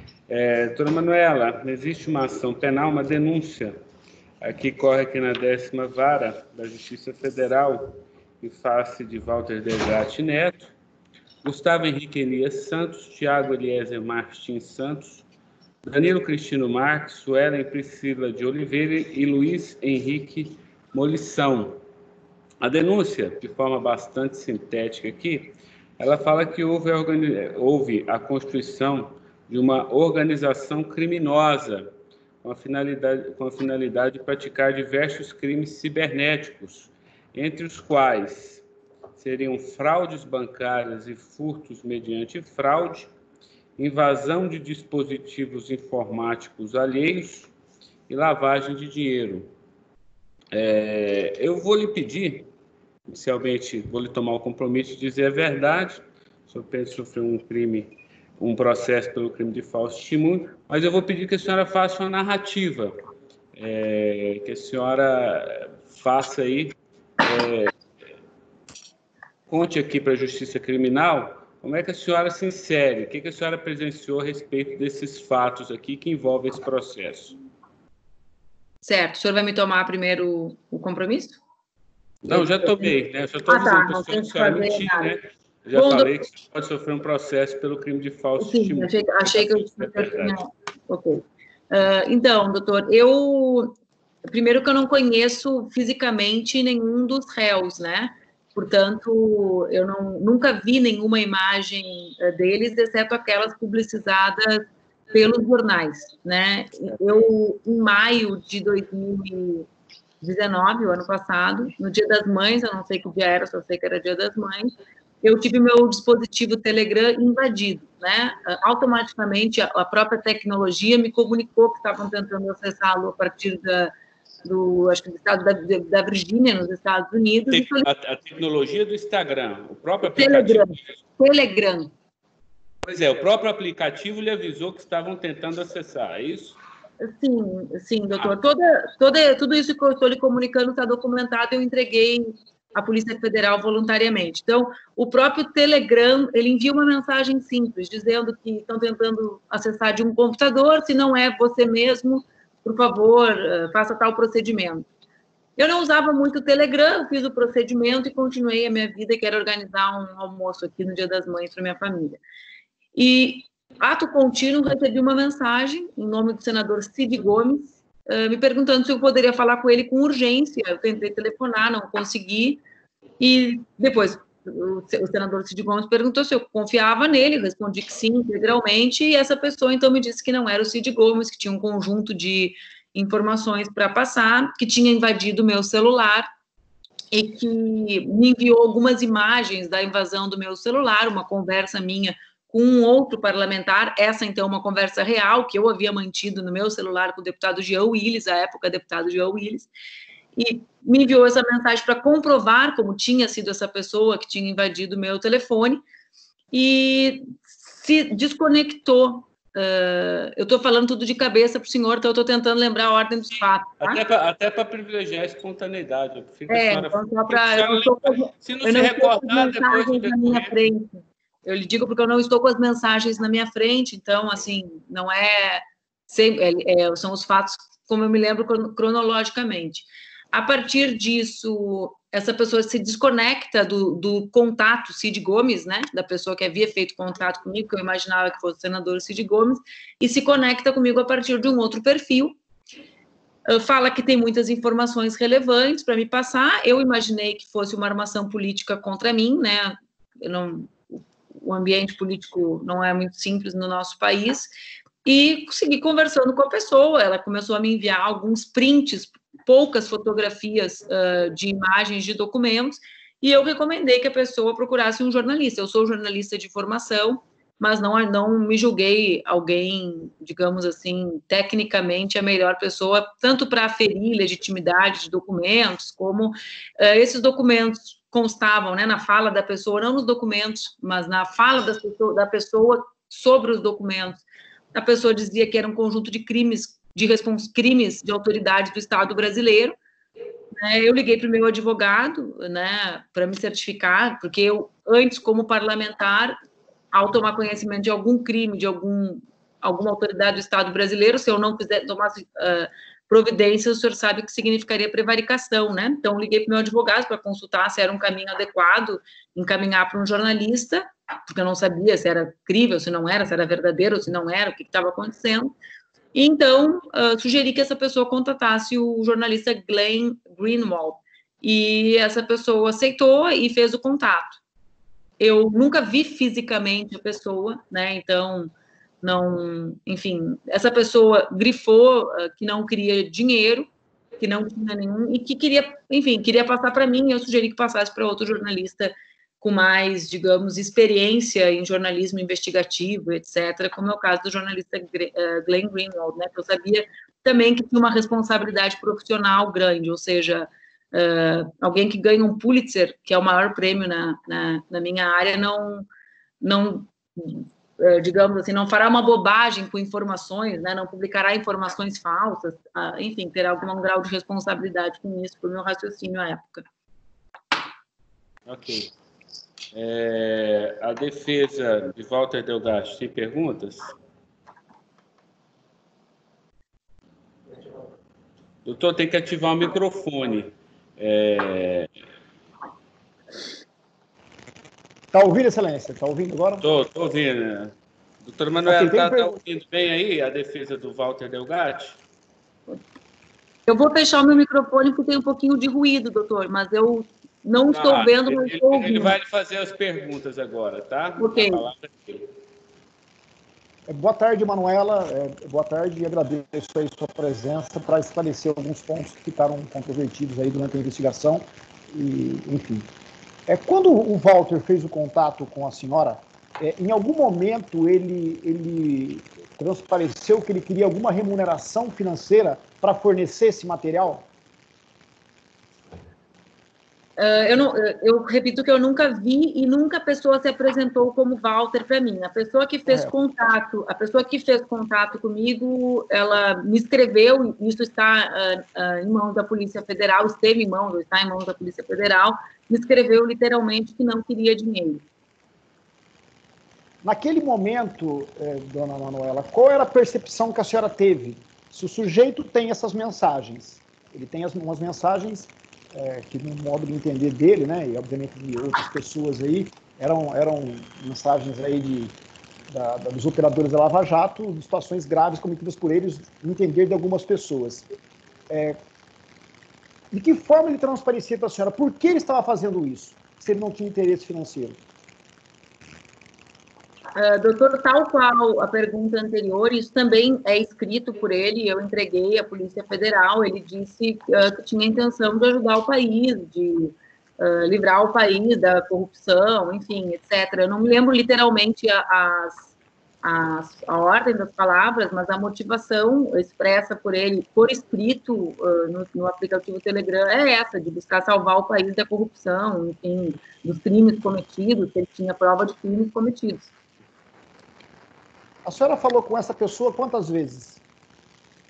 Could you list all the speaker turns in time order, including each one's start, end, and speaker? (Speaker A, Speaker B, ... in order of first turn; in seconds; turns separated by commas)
Speaker A: 0.3-3.8, Speaker A: 4.4-10.7, Speaker A: 11.4-15.2, Speaker A: 15.8-21.8, Speaker A: 22.6-38.6, Speaker A: 39.1-43.1, Speaker A: 43.8-47.5, Speaker A: 48.1-49.5, Speaker A: 50.5-52.5, Speaker A: 53.1-63.0, Speaker A: 63.5-67.8, Speaker A: 69.5-77.4, Speaker B: 78.8-81.4, Speaker A: 82.3-90.4, Speaker B: 82.3-83.0, Speaker B: 83.5-85.2, Speaker B: 85.7-86.2, Speaker B: 88.4-109.7, Speaker B: 110.2-123.9, Speaker B: 124.4-127.9, Speaker A: 127.5-130.9, Speaker B: 130.0-131.9, Speaker A: 132.8-136.6, Speaker B: 137.0-154.9, Speaker B: 155.6-162.2, Speaker B: 162.9-172.6, Speaker B: 173.2-186.3, Speaker B: 187.1-199.7, Speaker B: 200.4-205.8, Speaker B: 206.5-214.0, Speaker A: 213.4-220.6, Speaker B: 216.5-242.3, Speaker B: 243.5-254.5, Speaker B: 255.1-289.8, Speaker B: 290.6-296.4, Speaker B: 296.9-315.5, Speaker B: 316.1-324.4, Speaker B: 325.2-355.9, Speaker B: 356.4-366.6, Speaker A: 368.5-368.9, Speaker A: 369.7-374.0, Speaker A: 378.6-381.9, Speaker C: 385.1-386.6, Speaker A: 386.6-392.0, Speaker C: 388.7-389.4, Speaker B: 393.7-399.2, Speaker A: 397.7-402.3, Speaker B: 401.2-401.7, Speaker C: 403.9-412.9, Speaker C: 413.5-424.3, Speaker B: 427.2-445.0, Speaker C: 447.0-462.2, Speaker C: 462.7-467.9, Speaker C: 468.5-468.8, Speaker C: 470.1-474.8, Speaker B: 477.2-492.7, Speaker B: 493.2-506.7, Speaker C: 508.6-510.8